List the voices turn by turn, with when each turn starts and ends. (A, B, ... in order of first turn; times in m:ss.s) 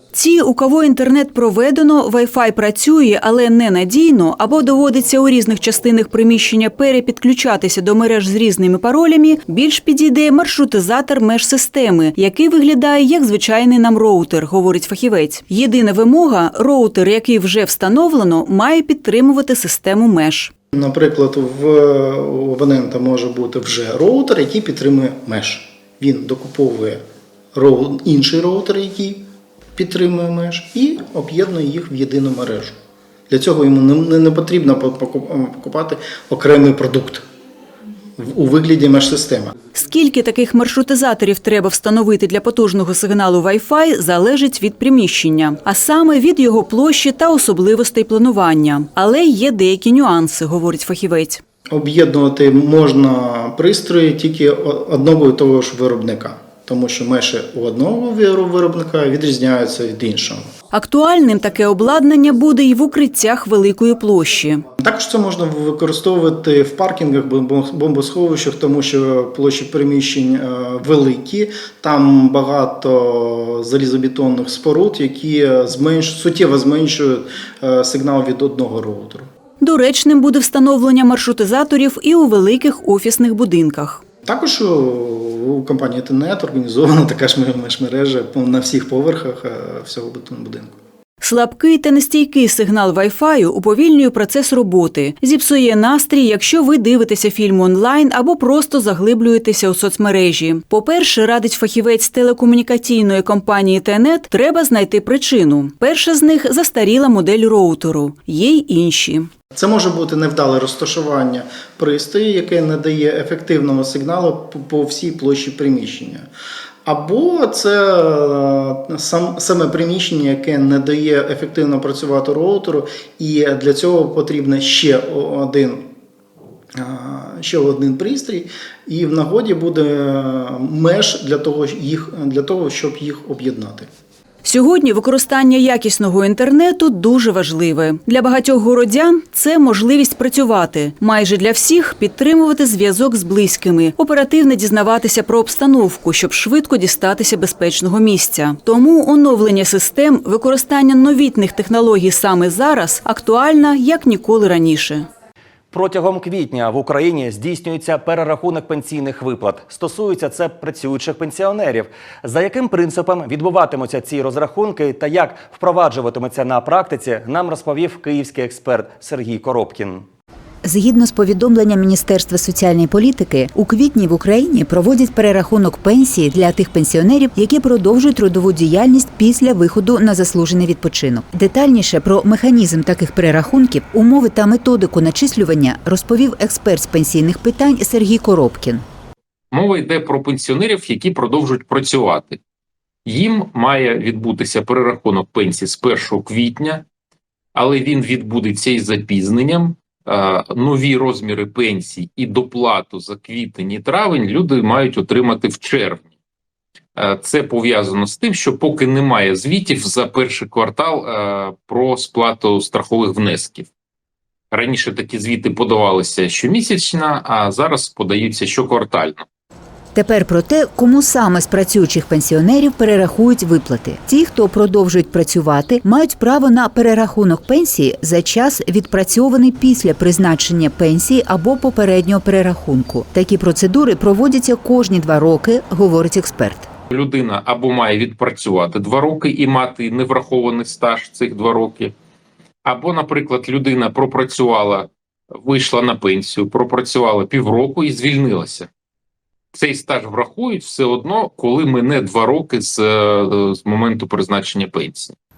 0:00.1-0:20.5 A
0:20.7-0:27.0 B
0:27.5-0:32.8 B
0:33.3-0:37.2 B
0:38.2-0:39.5 B
0:39.7-0:51.4 A
0:51.7-1:00.5 B
1:00.7-1:04.6 A
1:04.8-1:19.3 B
1:19.6-1:24.0 A
1:24.2-1:30.7 B
1:31.2-1:49.3 A
1:49.5-1:56.3 B
1:56.8-2:05.9 B
2:06.8-2:13.9 B
2:14.4-2:35.1 A
2:35.7-2:50.0 C
2:50.6-3:08.8 D
3:09.5-3:12.4 E
3:13.0-3:16.8 E
3:17.6-3:26.1 E
3:26.9-3:33.7 E
3:34.5-3:39.2 E
3:39.9-3:56.7 D
3:56.9-4:01.9 E
4:02.6-4:08.7 E
4:09.5-4:15.1 E